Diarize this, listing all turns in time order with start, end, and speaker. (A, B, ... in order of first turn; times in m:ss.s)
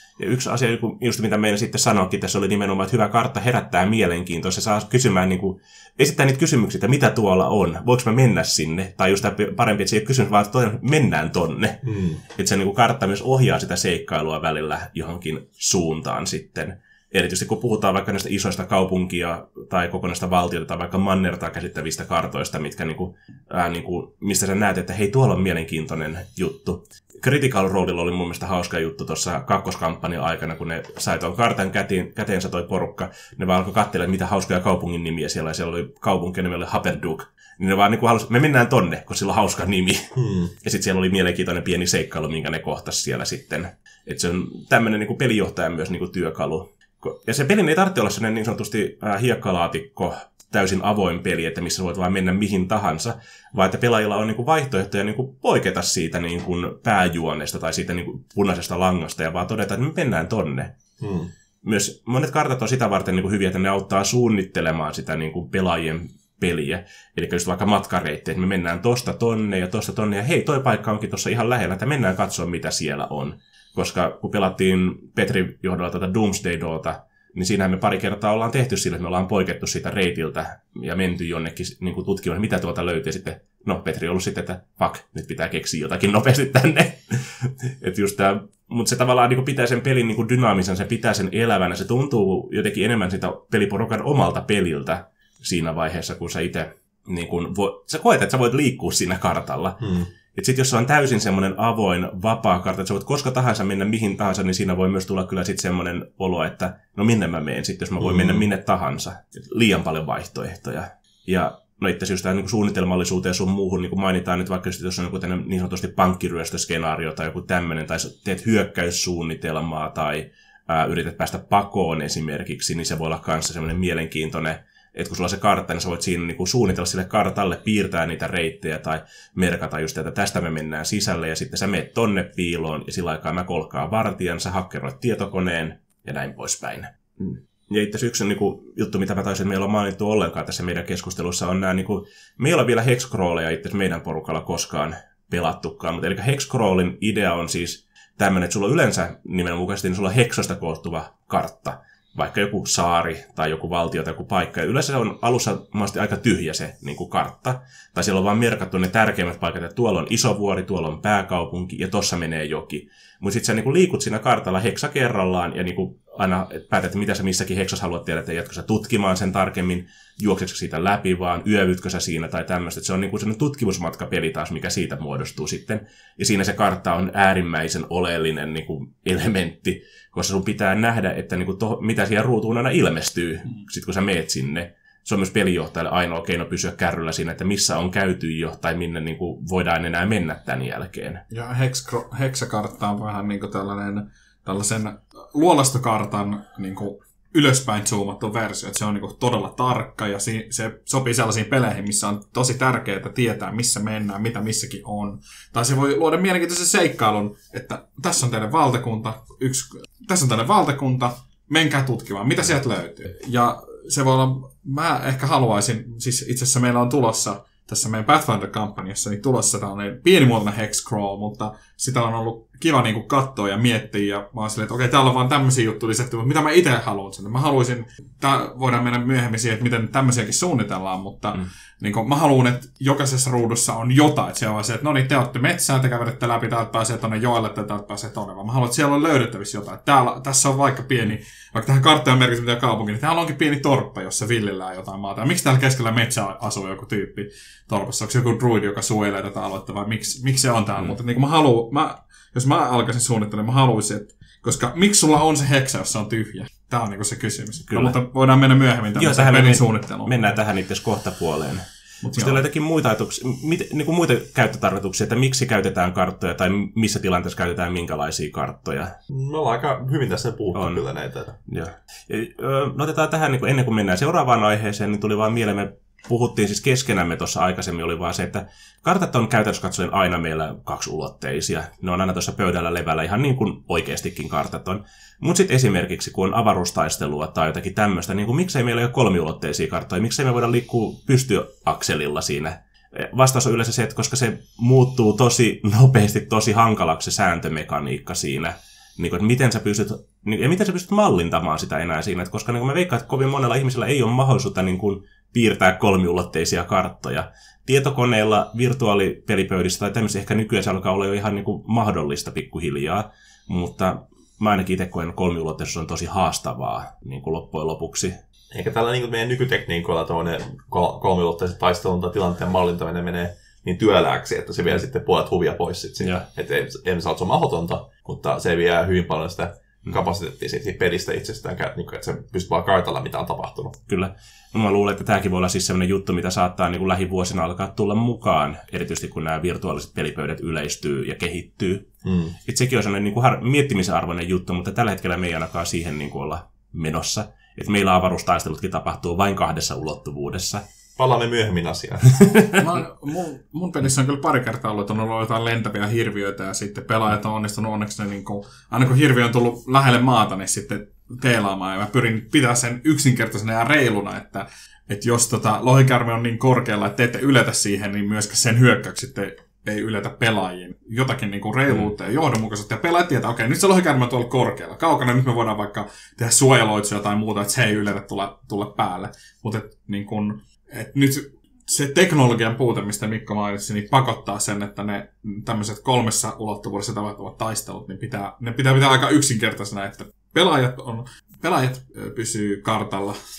0:00.2-0:11.8 A
0:11.8-0:12.2 B
0:12.3-0:40.0 A
0:40.1-0:40.5 B
0:40.6-1:00.7 A
1:01.0-1:01.3 B
1:01.6-3:11.2 A
1:39.8-1:40.1 B
1:48.0-1:48.4 B
3:11.3-4:20.3 C
4:17.7-4:18.0 A
4:19.0-4:28.9 A
4:22.0-4:22.4 C
4:29.1-4:31.4 B
4:30.5-4:30.8 A
4:31.5-5:18.1 A
5:18.5-5:33.8 B
5:33.9-5:41.9 A
5:42.0-5:42.4 B
5:42.4-5:50.6 A
5:51.0-5:52.1 B
5:52.2-5:52.6 A
5:52.6-6:33.2 C